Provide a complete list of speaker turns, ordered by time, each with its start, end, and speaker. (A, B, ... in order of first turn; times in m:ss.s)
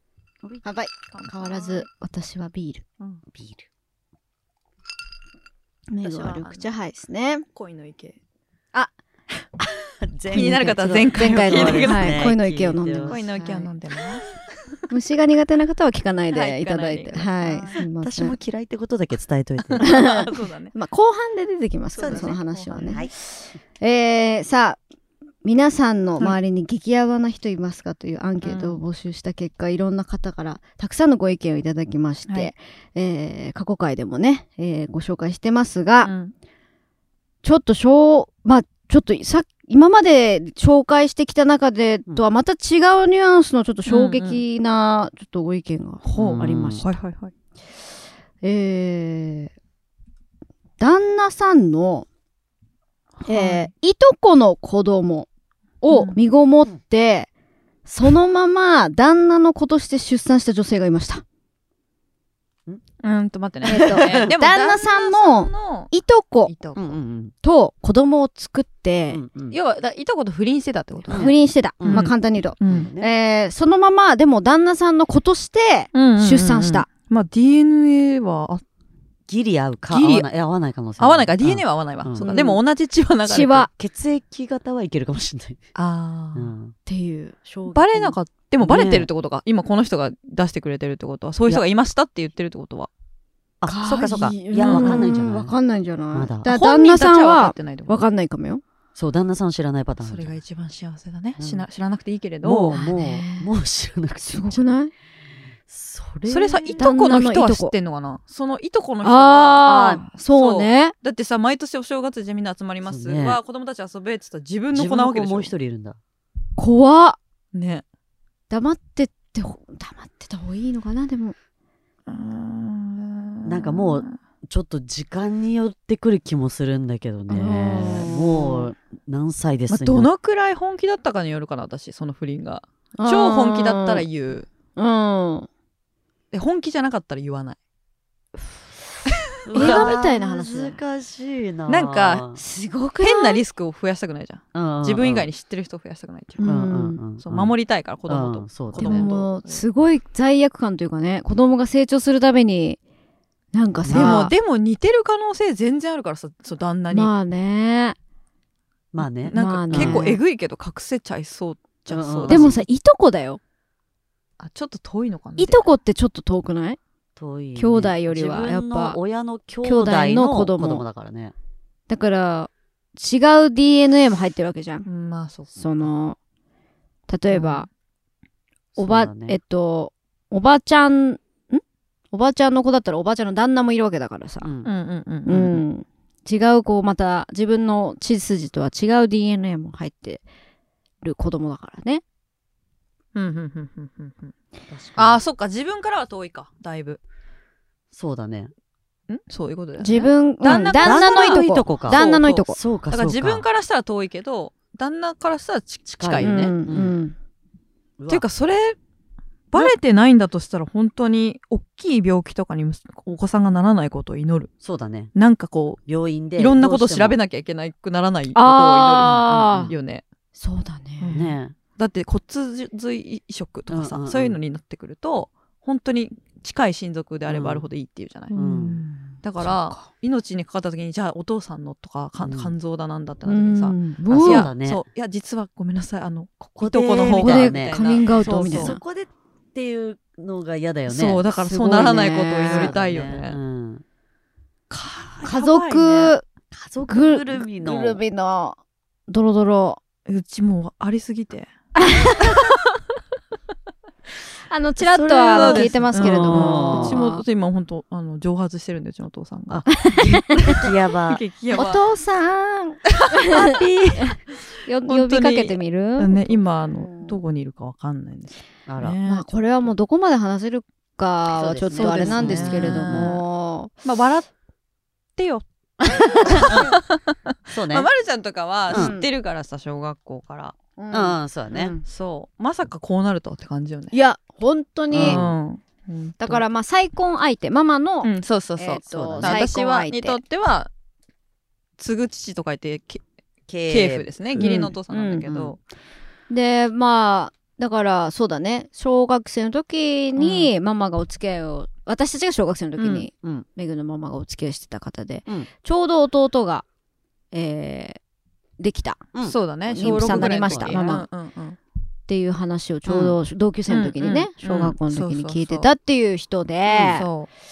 0:00.6-0:02.8 A
0:01.1-0:01.9 B
0:03.3-0:03.7 C
0:05.9-0:07.4 A
0:06.0-0:06.7 B
0:07.6-0:08.2 B
0:10.1-0:13.2 C
0:10.3-0:12.3 B
0:10.3-0:13.7 A
0:13.1-0:14.3 B
0:14.9-0:18.4 A
0:16.3-0:17.8 B
0:17.8-0:20.3 C
0:19.8-0:20.7 B
0:19.8-0:23.1 A
0:21.9-0:23.1 B
0:22.0-0:23.1 C
0:23.8-0:24.8 A
0:25.4-0:36.1 A
0:28.4-0:28.8 B
0:32.3-0:32.5 B
0:36.0-0:36.3 B
0:37.4-0:47.0 A
0:43.9-0:44.4 B
0:46.0-0:47.3 B
0:46.2-0:46.8 C
0:48.4-0:49.5 A
0:50.8-0:52.1 A
0:53.2-0:53.7 B
0:53.2-0:55.3 A
0:55.8-0:57.3 A
0:55.9-0:56.2 B
0:57.9-1:01.2 A
1:03.0-1:05.9 B
1:03.7-1:06.5 A
1:03.7-1:04.2 C
1:06.4-1:07.0 B
1:06.8-1:07.3 C
1:07.4-1:09.2 A
1:09.1-1:09.6 C
1:09.5-1:11.4 B
1:11.1-1:12.1 C
1:11.1-1:16.9 A
1:11.9-1:12.9 B
1:12.6-1:13.1 C
1:15.9-1:18.6 B
1:19.3-1:22.3 C
1:19.9-1:20.3 B
1:21.0-1:23.7 B
1:22.2-1:22.6 A
1:23.3-1:23.7 A
1:23.8-1:25.6 C
1:25.8-1:26.5 B
1:26.4-1:26.8 C
1:26.9-1:27.4 A
1:27.4-1:29.1 C
1:27.7-1:32.9 B
1:33.6-1:35.5 C
1:33.7-1:38.6 A
1:34.0-1:35.2 B
1:36.1-1:36.5 C
1:36.5-1:38.0 B
1:39.0-1:40.4 C
1:40.0-1:42.8 B
1:41.4-1:41.7 C
1:42.4-1:44.8 C
1:42.7-1:43.5 A
1:44.2-1:44.9 A
1:45.7-1:46.9 C
1:46.3-1:55.5 B
1:46.8-1:47.7 A
1:49.0-1:51.0 A
1:52.8-1:53.4 C
1:54.7-1:56.0 C
1:56.6-1:57.2 A
1:57.5-1:57.8 B
1:58.5-2:01.4 A
2:02.1-2:04.2 B
2:03.4-2:10.1 C
2:07.3-2:08.7 A
2:09.7-2:14.5 B
2:13.0-2:14.1 A
2:14.8-2:15.5 A
2:16.3-2:17.6 B
2:19.4-2:22.4 C
2:19.5-2:20.0 B
2:19.5-2:20.8 A
2:21.7-2:22.2 B
2:22.4-2:23.4 A
2:23.0-2:26.5 B
2:24.5-2:25.3 C
2:26.4-2:27.0 A
2:26.4-2:29.1 C
2:27.2-2:29.6 B
2:28.8-2:32.8 A
2:33.5-2:34.3 A
2:33.8-2:34.2 C
2:33.9-2:37.1 B
2:36.9-2:38.0 A
2:38.9-2:40.1 C
2:39.0-2:42.6 B
2:39.3-2:40.2 A
2:41.9-2:42.6 C
2:42.3-2:43.4 A
2:44.4-2:45.7 B
2:45.4-2:46.8 A
2:47.2-2:51.3 C
2:47.6-2:49.0 A
2:49.6-2:50.8 A
2:51.9-2:54.8 A
2:54.8-2:55.9 B
2:55.6-2:56.2 A
2:57.1-2:57.7 A
2:57.3-2:57.7 B
2:58.8-2:59.4 C
2:58.8-3:04.5 A
3:04.4-3:04.7 C
3:04.6-3:05.5 B
3:05.3-3:10.2 A
3:05.3-3:05.6 C
3:11.0-3:12.0 A
3:13.2-3:14.3 B
3:14.7-3:15.2 C
3:15.0-3:17.0 B
3:17.9-3:18.5 C
3:19.1-3:26.5 B
3:19.8-3:22.6 A
3:20.5-3:23.4 C
3:26.0-3:27.0 C
3:26.2-3:27.2 A
3:28.0-3:28.2 C
3:28.1-3:28.8 B
3:29.5-3:34.5 B
3:34.6-3:35.1 C
3:35.1-3:35.8 B
3:35.9-3:37.2 C
3:36.4-3:40.0 B
3:38.4-3:39.7 A
3:39.1-3:39.7 C
3:40.4-3:41.2 A
3:41.0-3:48.4 B
3:41.1-3:41.6 C
3:43.7-3:44.4 C
3:47.3-3:47.6 C
3:48.3-3:49.9 A
3:48.4-3:48.8 C
3:49.2-3:58.8 B
3:52.2-3:52.5 C
3:53.2-3:54.5 A
3:54.1-3:54.8 C
3:56.4-4:01.2 C
3:57.1-3:58.8 A
4:00.9-4:03.4 B
4:01.4-4:02.8 A
4:02.5-4:03.8 C
4:04.7-4:06.1 B
4:05.2-4:06.2 A
4:06.5-4:08.0 C
4:06.9-4:09.8 A
4:10.1-4:11.5 B
4:11.8-4:12.5 A
4:12.2-4:12.6 B
4:14.5-4:17.2 A
4:14.9-4:17.0 C
4:15.3-4:21.8 B
4:19.7-4:20.4 A
4:20.6-4:21.2 C
4:21.5-4:27.2 A
4:23.2-4:29.3 B
4:28.7-4:29.0 C
4:29.1-4:33.7 A
4:31.4-4:33.2 C
4:31.8-4:33.2 B
4:33.8-4:34.3 B
4:35.2-4:35.4 B
4:35.8-4:36.7 A
4:36.0-4:40.6 B
4:36.3-4:36.7 C
4:37.5-4:37.9 C
4:38.7-4:38.9 C
4:38.7-4:39.1 A
4:40.8-4:41.8 A
4:40.9-4:41.7 C
4:41.8-4:44.0 B
4:43.9-4:45.2 A
4:44.9-4:45.3 C
4:44.9-4:46.4 B
4:46.2-4:50.2 A
4:48.0-4:50.7 B
4:48.8-4:49.4 C
4:51.8-4:53.0 B
4:53.5-4:54.7 C
4:53.7-4:55.6 B
4:54.4-4:55.3 A
4:55.3-4:55.5 C
4:56.3-5:06.6 A
5:00.2-5:00.5 B
5:02.8-5:03.1 B
5:07.3-5:08.0 A
5:08.6-5:09.0 A
5:09.1-5:11.0 C
5:09.2-5:11.6 B
5:09.7-5:11.1 A
5:12.1-5:17.1 A
5:12.9-5:13.2 C
5:13.7-5:15.7 B
5:16.7-5:17.0 C
5:16.9-5:17.3 B